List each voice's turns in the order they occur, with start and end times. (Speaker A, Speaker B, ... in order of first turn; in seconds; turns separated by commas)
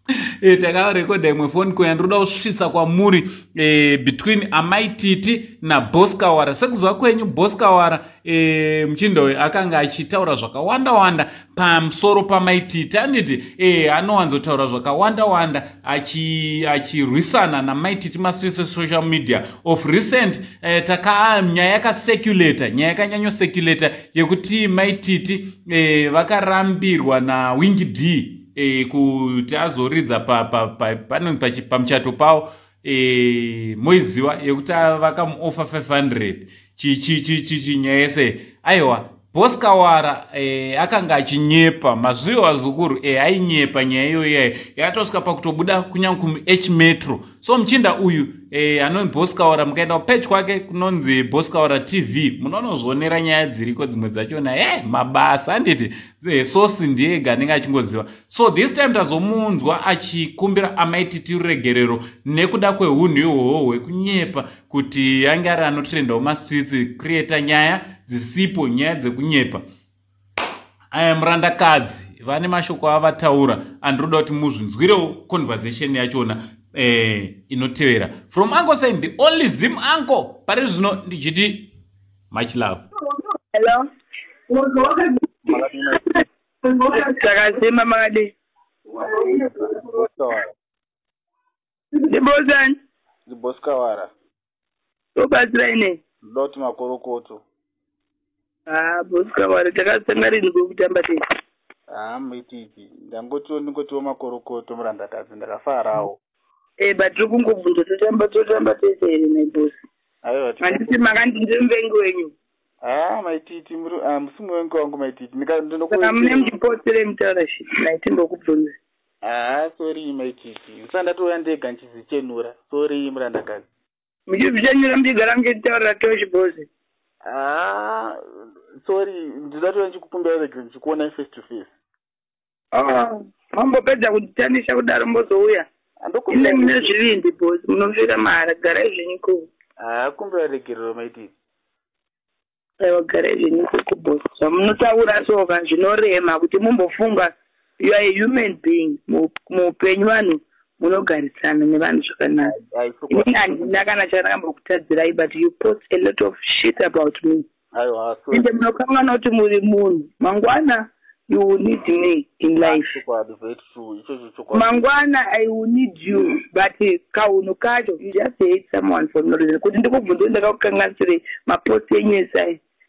Speaker A: 0.4-69.6, Speaker A: 70.9-81.7, Speaker A: 82.3-82.8, Speaker B: 83.5-83.8, Speaker B: 84.5-85.1, Speaker C: 85.5-86.1, Speaker B: 86.7-88.3, Speaker B: 88.9-89.8, Speaker C: 89.6-90.5, Speaker B: 92.1-92.8, Speaker C: 93.3-94.1, Speaker B: 95.2-96.0, Speaker C: 96.3-97.4, Speaker B: 98.7-101.2, Speaker C: 101.9-106.2, Speaker B: 106.8-109.8, Speaker C: 110.2-110.9, Speaker B: 110.6-112.3, Speaker C: 112.8-116.5, Speaker B: 115.9-118.8, Speaker C: 119.2-123.7, Speaker B: 124.3-126.7, Speaker C: 127.3-128.2, Speaker C: 128.8-131.7, Speaker B: 132.7-135.7, Speaker C: 136.0-136.9, Speaker B: 136.3-139.5, Speaker C: 139.8-141.3, Speaker B: 142.8-152.5, Speaker C: 152.4-153.4, Speaker B: 153.1-157.5, Speaker C: 157.8-158.5, Speaker B: 158.3-162.9, Speaker C: 162.6-164.9, Speaker B: 164.5-172.6